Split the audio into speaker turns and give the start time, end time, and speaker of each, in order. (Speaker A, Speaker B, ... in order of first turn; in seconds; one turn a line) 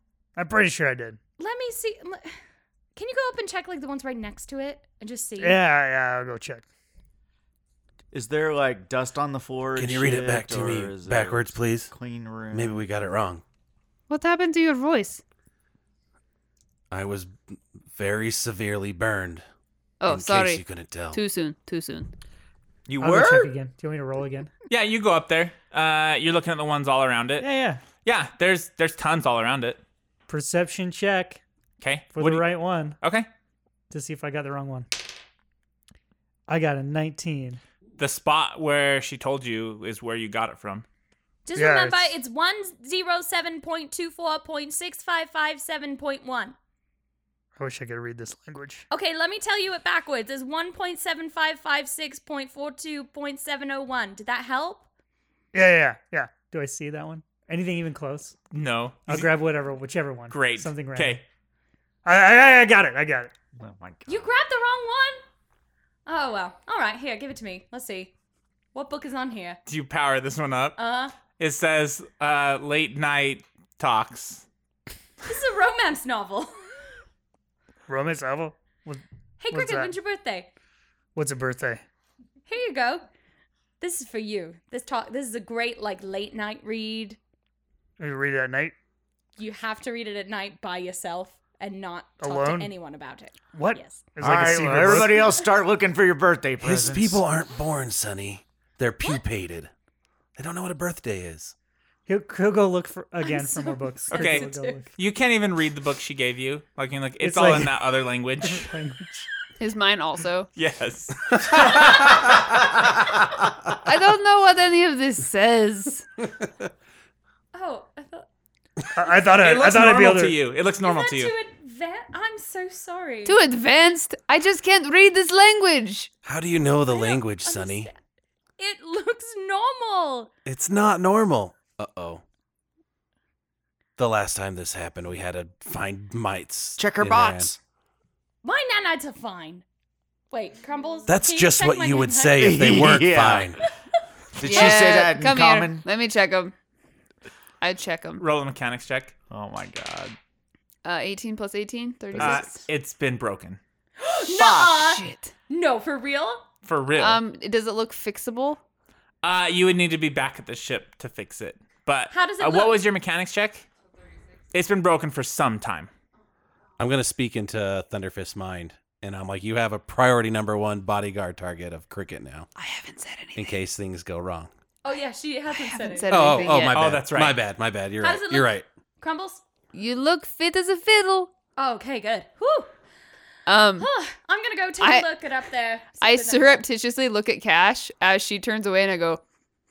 Speaker A: 0.3-1.2
Speaker B: 1.4-2.4
Speaker B: 3.0-5.6
Speaker A: 5.4-6.6
Speaker C: 8.1-12.7
Speaker D: 9.8-11.9
Speaker D: 12.5-13.4
Speaker E: 14.1-15.2
Speaker D: 16.9-19.4
Speaker E: 20.0-22.1
Speaker D: 20.1-21.2
Speaker C: 22.9-23.5
Speaker A: 23.0-24.5
Speaker F: 24.7-27.5
Speaker A: 27.4-27.8
Speaker F: 28.0-29.8
Speaker A: 30.3-31.4
Speaker F: 31.8-33.3
Speaker A: 32.1-33.0
Speaker A: 33.9-34.9
Speaker A: 36.5-37.6
Speaker F: 38.0-40.9
Speaker B: 41.4-46.5
Speaker A: 41.5-42.1
Speaker A: 47.6-48.8
Speaker B: 48.9-54.9
Speaker A: 55.5-58.4
Speaker F: 58.5-59.3
Speaker A: 59.1-61.2
Speaker F: 60.3-61.2
Speaker A: 62.0-63.3
Speaker C: 63.6-64.3
Speaker B: 64.0-65.2
Speaker B: 66.0-68.1
Speaker B: 68.7-69.6
Speaker F: 69.7-70.8
Speaker B: 70.8-71.1
Speaker F: 71.3-74.4
Speaker B: 75.2-76.6
Speaker A: 77.9-79.9
Speaker B: 79.4-80.5
Speaker A: 81.1-81.8
Speaker B: 82.5-83.1
Speaker B: 83.8-87.2
Speaker A: 88.0-88.7
Speaker B: 89.4-94.0
Speaker A: 92.2-92.7
Speaker A: 93.5-95.4
Speaker C: 94.2-97.2
Speaker D: 96.6-99.7
Speaker D: 100.3-101.5
Speaker A: 102.1-104.9
Speaker B: 103.2-104.8
Speaker F: 104.1-108.7
Speaker A: 107.2-109.3
Speaker E: 109.6-110.5
Speaker F: 110.5-112.2
Speaker D: 111.5-112.3
Speaker E: 113.8-116.0
Speaker B: 117.5-118.3
Speaker A: 118.9-120.4
Speaker F: 119.2-121.3
Speaker B: 120.8-123.4
Speaker E: 123.2-126.1
Speaker D: 126.2-127.9
Speaker B: 126.9-128.0
Speaker B: 128.6-130.3
Speaker D: 130.4-132.2
Speaker D: 134.0-137.5
Speaker C: 136.8-137.6
Speaker B: 138.4-139.6
Speaker B: 140.3-142.9
Speaker D: 141.1-143.6
Speaker C: 142.4-143.5
Speaker C: 144.4-145.8
Speaker E: 144.4-146.5
Speaker E: 147.6-148.2
Speaker F: 148.2-149.1
Speaker C: 149.3-150.2
Speaker E: 150.8-152.7
Speaker C: 152.1-152.5
Speaker F: 152.2-153.6
Speaker B: 154.0-156.4
Speaker C: 154.2-154.8
Speaker E: 154.8-155.3
Speaker F: 156.6-157.2
Speaker E: 157.0-158.6
Speaker F: 159.2-163.7
Speaker B: 162.1-162.7
Speaker F: 164.5-165.9
Speaker D: 166.8-172.5
Speaker E: 172.6-173.6
Speaker D: 173.3-174.5
Speaker B: 174.8-176.4
Speaker E: 175.5-176.9
Speaker D: 176.1-178.7
Speaker F: 176.7-177.4
Speaker B: 178.0-179.4
Speaker E: 179.7-181.3
Speaker B: 181.6-182.7
Speaker E: 183.5-183.9
Speaker B: 183.8-186.6
Speaker E: 184.8-185.1
Speaker E: 186.0-189.2